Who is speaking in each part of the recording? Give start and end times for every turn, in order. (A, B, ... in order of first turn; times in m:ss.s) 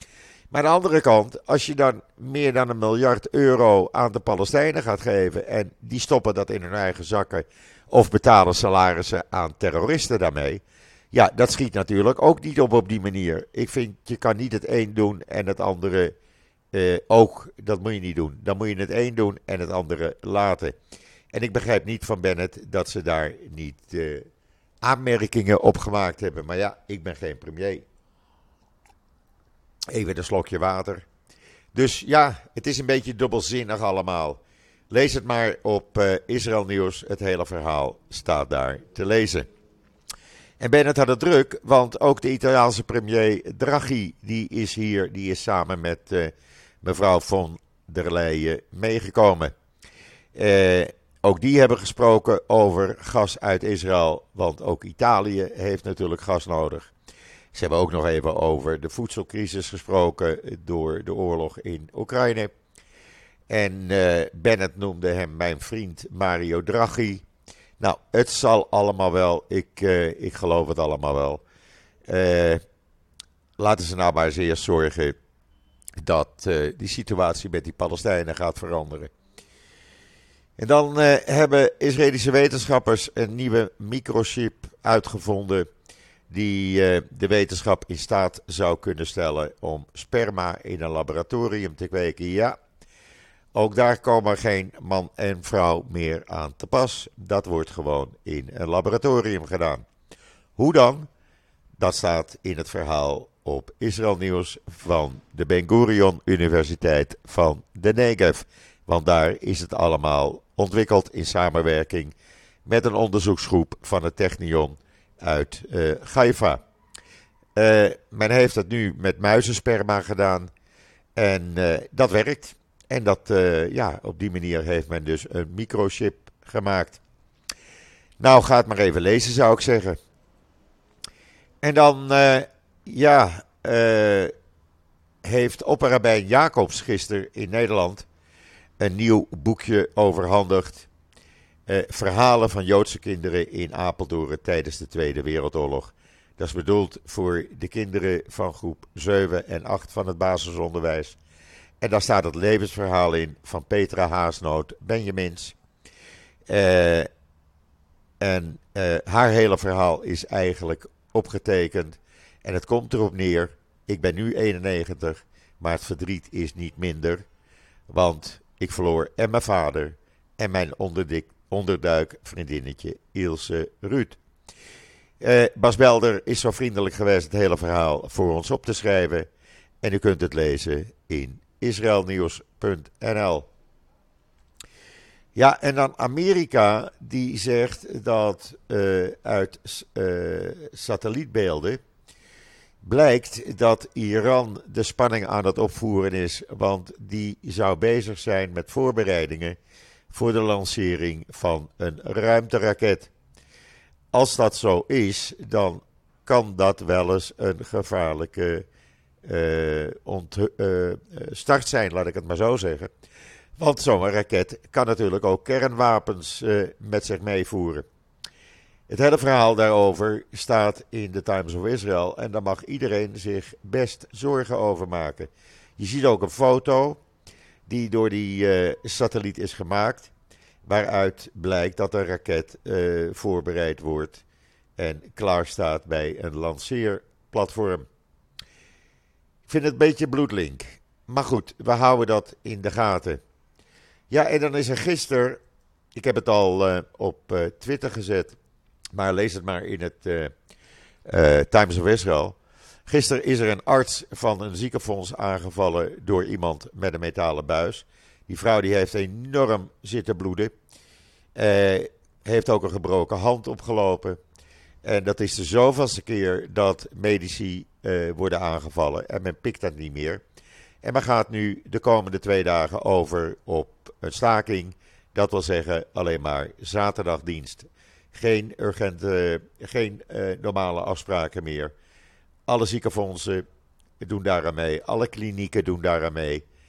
0:00.5-0:16.1 A
0:16.7-0:20.7 A
0:21.3-0:24.3 A
0:24.8-0:27.8 A
0:29.9-0:31.0 A
0:31.7-0:39.5 A
0:40.6-0:49.5 A
0:50.3-0:56.9 A
0:57.5-1:02.5 A
1:03.5-1:07.2 A
1:07.8-1:11.4 A
1:12.1-1:12.6 A
1:13.6-1:15.2 A
1:16.0-1:19.1 A
1:20.6-1:25.7 A
1:26.3-1:32.6 A
1:33.5-1:39.8 A
1:40.6-1:41.1 A
1:41.8-1:52.1 A
1:52.6-1:56.6 A
1:57.6-2:00.5 A
2:01.2-2:07.0 A
2:08.2-2:10.0 A
2:11.6-2:14.3 A
2:15.2-2:18.1 A
2:18.8-2:20.9 A
2:21.7-2:31.2 A
2:31.8-2:35.6 A
2:36.5-2:37.1 A
2:38.2-2:47.2 A
2:47.9-2:54.2 A
2:55.2-2:59.3 A
2:59.8-3:03.5 A
3:05.3-3:11.8 A
3:12.8-3:19.6 A
3:20.1-3:23.1 A
3:24.1-3:28.6 A
3:29.2-3:32.9 A
3:33.6-3:37.8 A
3:38.9-3:47.0 A
3:47.7-3:50.1 A
3:50.6-3:54.2 A
3:54.8-3:57.9 A
3:59.4-4:03.2 A
4:04.1-4:05.4 A
4:05.9-4:08.4 A
4:08.9-4:10.3 A
4:11.1-4:20.5 A
4:21.4-4:24.2 A
4:24.8-4:30.2 A
4:30.8-4:41.7 A
4:42.5-4:43.4 A
4:44.0-4:46.4 A